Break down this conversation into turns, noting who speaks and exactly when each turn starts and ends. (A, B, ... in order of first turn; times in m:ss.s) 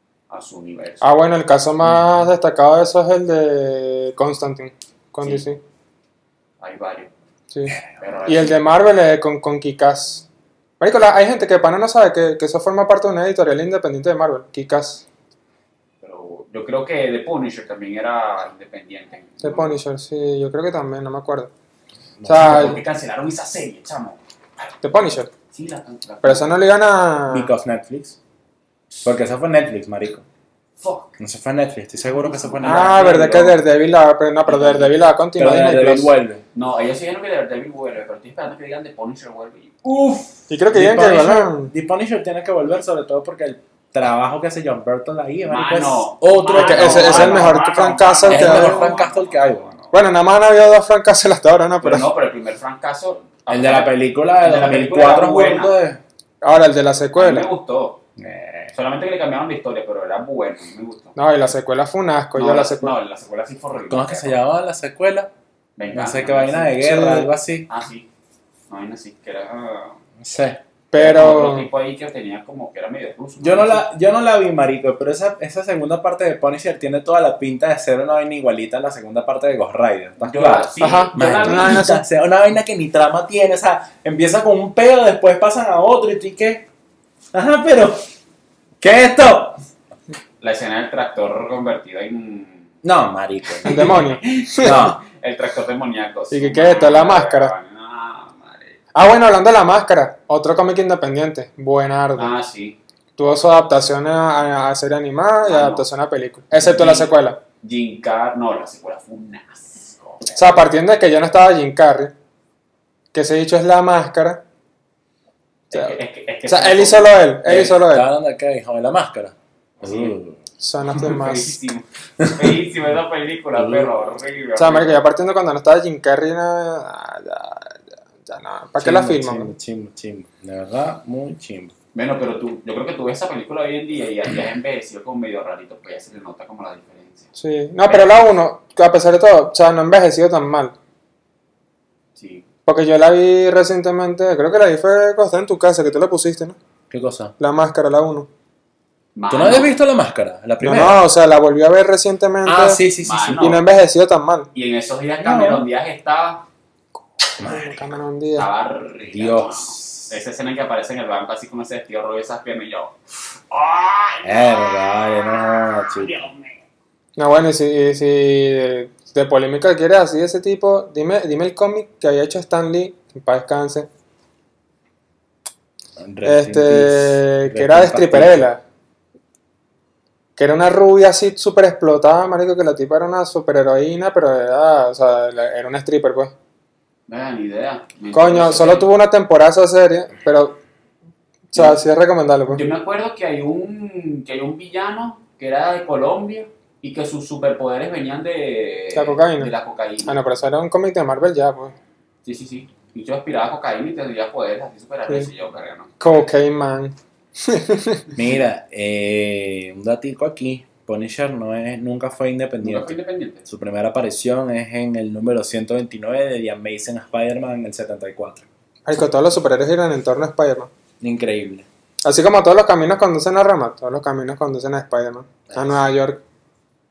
0:00.3-0:01.0 A
0:01.0-0:05.6 B
0:01.8-0:02.2 C
0:06.6-0:07.1 A
0:07.5-0:10.2 B
0:08.0-0:08.7 A
0:10.8-0:15.0 B
0:16.0-0:19.8 A
0:19.4-0:21.5 B
0:22.2-0:22.8 C
0:22.2-0:22.8 B
0:22.4-0:24.7 A
0:24.8-0:25.3 B
0:25.5-0:26.6 A
0:26.2-0:27.5 B
0:27.3-0:28.2 C
0:29.0-0:30.2 C
0:30.8-0:31.2 A
0:31.2-0:33.2 C
0:32.0-0:33.6 A
0:32.6-0:36.1 B
0:34.5-0:35.0 A
0:35.4-0:36.4 C
0:36.5-0:40.4 A
0:40.5-0:41.7 B
0:40.7-0:47.6 C
0:45.5-0:49.9 A
0:46.5-0:48.9 B
0:48.3-0:49.8 C
0:49.9-0:52.1 B
0:51.8-0:55.7 A
0:53.5-0:56.0 C
0:56.4-0:57.5 B
0:57.2-0:58.0 A
0:58.2-0:58.7 C
0:58.7-1:01.2 A
1:01.2-1:03.0 B
1:02.4-1:04.4 A
1:03.9-1:05.3 C
1:05.8-1:07.0 A
1:05.9-1:07.7 C
1:06.8-1:07.3 B
1:07.6-1:08.1 A
1:08.7-1:10.0 A
1:10.2-1:10.6 C
1:10.9-1:11.7 B
1:10.9-1:13.8 A
1:13.4-1:26.6 C
1:20.2-1:21.8 A
1:20.8-1:22.0 B
1:27.3-1:28.0 C
1:28.8-1:29.6 C
1:30.4-1:32.7 A
1:32.8-1:35.0 C
1:33.6-1:34.8 B
1:33.6-1:38.8 A
1:36.3-1:37.5 B
1:38.9-1:42.3 B
1:42.2-1:42.8 A
1:43.2-1:47.4 B
1:45.4-1:45.9 A
1:46.5-1:50.6 A
1:50.3-1:52.1 B
1:53.1-1:54.4 B
1:55.7-1:57.3 A
1:55.7-1:58.1 B
1:57.4-2:00.4 C
1:59.8-2:00.1 A
2:00.6-2:01.5 B
2:00.9-2:05.0 A
2:02.2-2:02.6 C
2:03.6-2:04.0 C
2:04.6-2:09.5 B
2:08.8-2:11.7 C
2:11.9-2:17.3 A
2:17.4-2:20.7 B
2:17.8-2:18.2 A
2:22.2-2:22.4 A
2:22.6-2:26.6 B
2:26.9-2:27.3 C
2:27.4-2:28.3 B
2:29.1-2:29.8 A
2:29.3-2:31.0 C
2:30.6-2:32.8 B
2:32.4-2:33.5 C
2:33.0-2:33.6 A
2:33.4-2:34.5 B
2:34.5-2:36.4 A
2:35.2-2:35.6 C
2:37.4-2:37.9 C
2:37.4-2:38.5 B
2:38.4-2:43.0 A
2:39.1-2:40.1 C
2:43.5-2:46.5 A
2:44.2-2:46.1 C
2:47.2-2:53.9 B
2:56.0-2:58.5 C
2:56.2-2:58.6 B
3:00.4-3:06.3 B
3:07.1-3:08.9 A
3:08.1-3:10.6 B
3:11.5-3:12.6 B
3:12.5-3:20.2 A
3:18.9-3:19.5 B
3:20.0-3:21.7 B
3:22.2-3:26.0 A
3:26.0-3:28.0 B
3:28.1-3:38.4 C
3:32.6-3:33.4 A
3:38.8-3:40.7 B
3:41.0-3:41.7 C
3:42.0-3:46.2 B
3:45.5-3:45.8 C